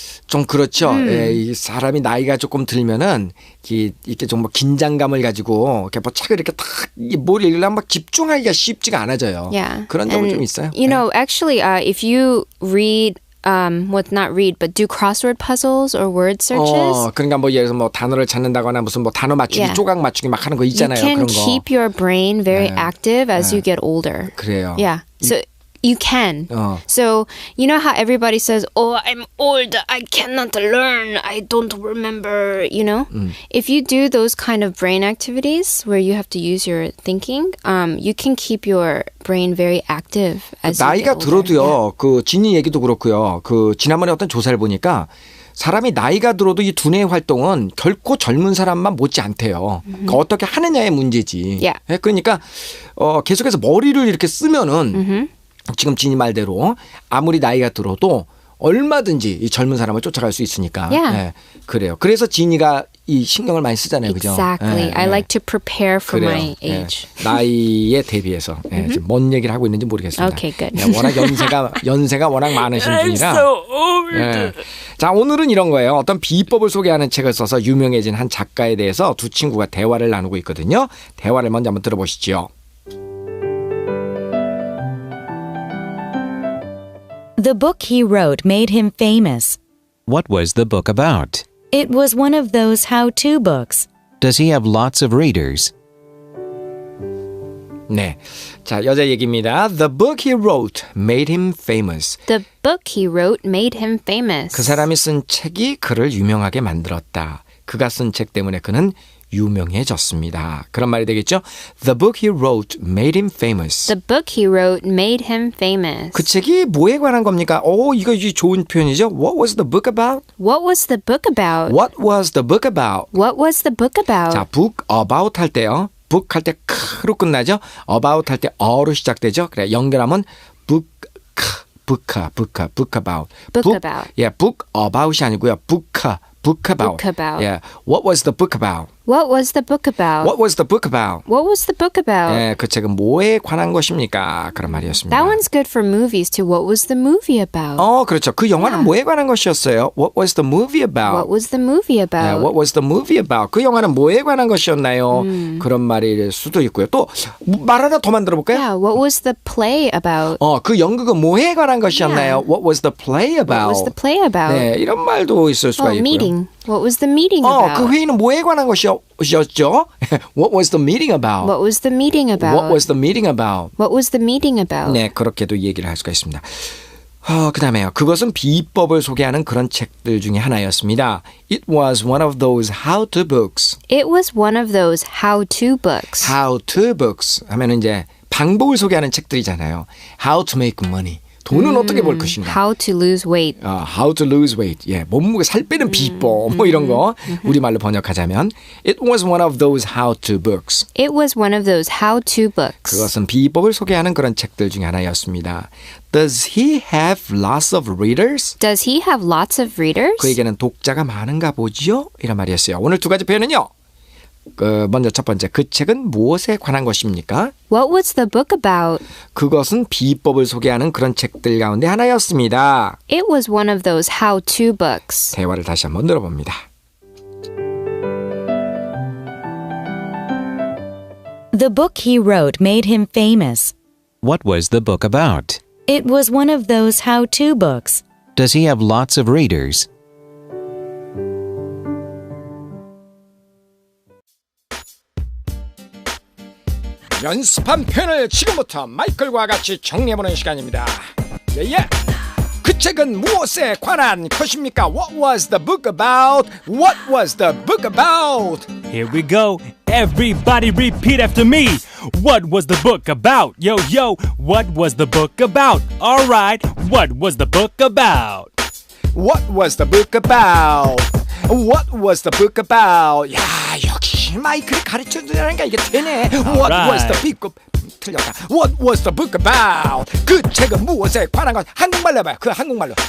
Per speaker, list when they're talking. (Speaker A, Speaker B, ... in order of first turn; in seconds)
Speaker A: 0.3-11.0, 16.5-21.6, 22.5-23.6, 24.3-25.3, 26.5-26.8, 33.1-33.4, 40.7-55.0, 55.7-65.3, 66.1-82.5, 97.9-102.2, 104.5-113.9, 116.1-120.2, 121.7-123.1, 124.3-138.9, 140.2-141.2, 142.2-145.4, 147.8-151.3, 152.2-158.7, 160.4-163.9, 164.5-166.3, 167.4-171.5, 172.4-173.7, 174.8-176.7, 177.2-183.8, 186.2-192.6, 193.6-200.8, 202.8-208.6, 210.2-213.7, 214.6-217.5, 219.3-223.0, 225.3-226.6, 247.2-251.9, 252.6-258.7, 269.1-283.0
Speaker B: 0.8-1.4, 9.5-17.1, 19.5-19.8, 20.7-41.8, 49.9-50.2, 54.9-55.3, 60.9-61.2, 64.0-67.4, 70.2-71.5, 73.6-74.1, 102.3-104.8, 113.9-116.3, 120.4-121.8, 123.1-124.4, 133.5-134.1, 136.8-137.5, 139.1-140.3, 141.3-142.4, 145.1-147.9, 148.6-148.9, 151.1-152.5, 155.1-155.7, 158.5-160.4, 161.9-162.4, 163.5-164.7, 165.8-167.9, 171.4-172.8, 173.8-175.0, 183.9-186.3, 191.5-193.6, 196.1-197.5, 200.9-203.1, 208.6-210.4, 217.7-219.0, 223.1-225.3
Speaker C: 87.4-89.6, 91.6-93.9, 231.5-233.7, 235.8-238.0
Speaker D: 90.1-91.5, 94.2-95.7, 234.2-235.6, 238.3-239.9
Speaker E: 258.9-268.5, 276.4-277.3